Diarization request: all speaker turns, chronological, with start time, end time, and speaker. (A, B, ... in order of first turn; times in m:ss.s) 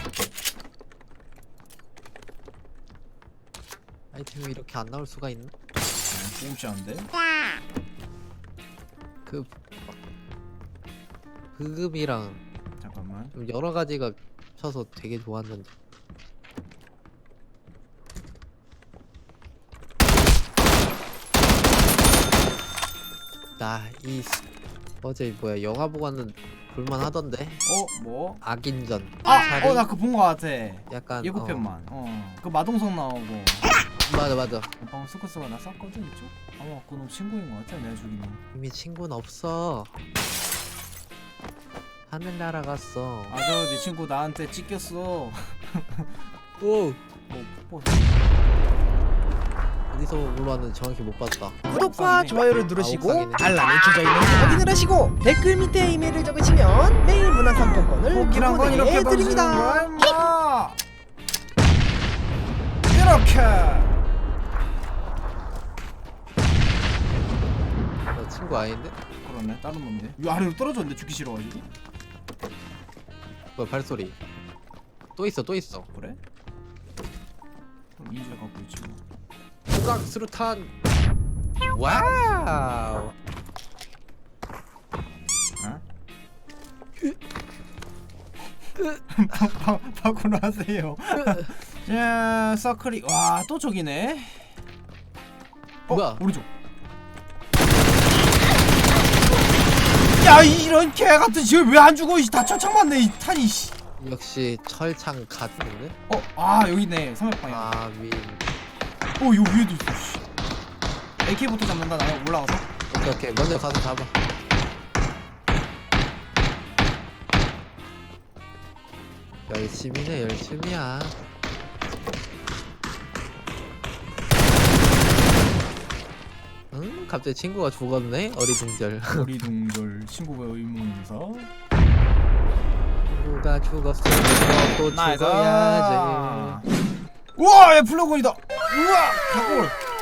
0:04.1-0:05.5 A
0:06.1-0:07.1 B
0:09.3-0:10.0 A
0:11.5-0:12.4 A
0:12.8-0:13.4 B
0:13.3-0:15.7 A
0:23.6-0:24.4 A
0:25.0-0:27.7 A
0:27.6-0:28.4 B
0:28.4-0:29.9 A
0:29.2-0:33.7 B
0:30.9-0:31.7 A
0:34.0-0:34.7 A
0:34.8-0:38.4 B
0:38.5-0:39.9 A
0:42.1-0:43.4 A
0:43.3-0:46.1 B
0:46.6-0:47.0 A
0:47.3-0:48.2 B
0:49.9-0:51.6 A
0:51.7-0:52.6 B
0:51.7-0:59.9 C
0:52.8-0:53.6 A
0:58.0-1:00.8 B
1:02.9-1:04.0 B
1:08.1-1:09.0 A
1:09.2-1:11.7 B
1:13.6-1:14.2 A
1:15.2-1:15.9 A
1:15.9-1:16.2 B
1:18.0-1:19.0 B
1:19.7-1:20.7 A
1:21.6-1:23.1 A
1:28.8-1:29.0 A
1:29.1-1:34.6 B
1:31.2-1:31.5 A
1:35.9-1:36.5 B
1:35.9-1:36.2 A
1:40.1-1:43.8 B
1:44.0-1:46.0 A
1:46.1-1:47.8 B
1:47.5-1:48.5 A
1:49.2-1:50.2 B
1:51.2-1:52.7 B
1:52.9-1:54.2 A
1:59.5-2:01.2 A
2:06.7-2:09.3 A
2:09.1-2:11.5 B
2:13.1-2:16.6 A
2:14.9-2:16.7 B
2:17.4-2:19.8 B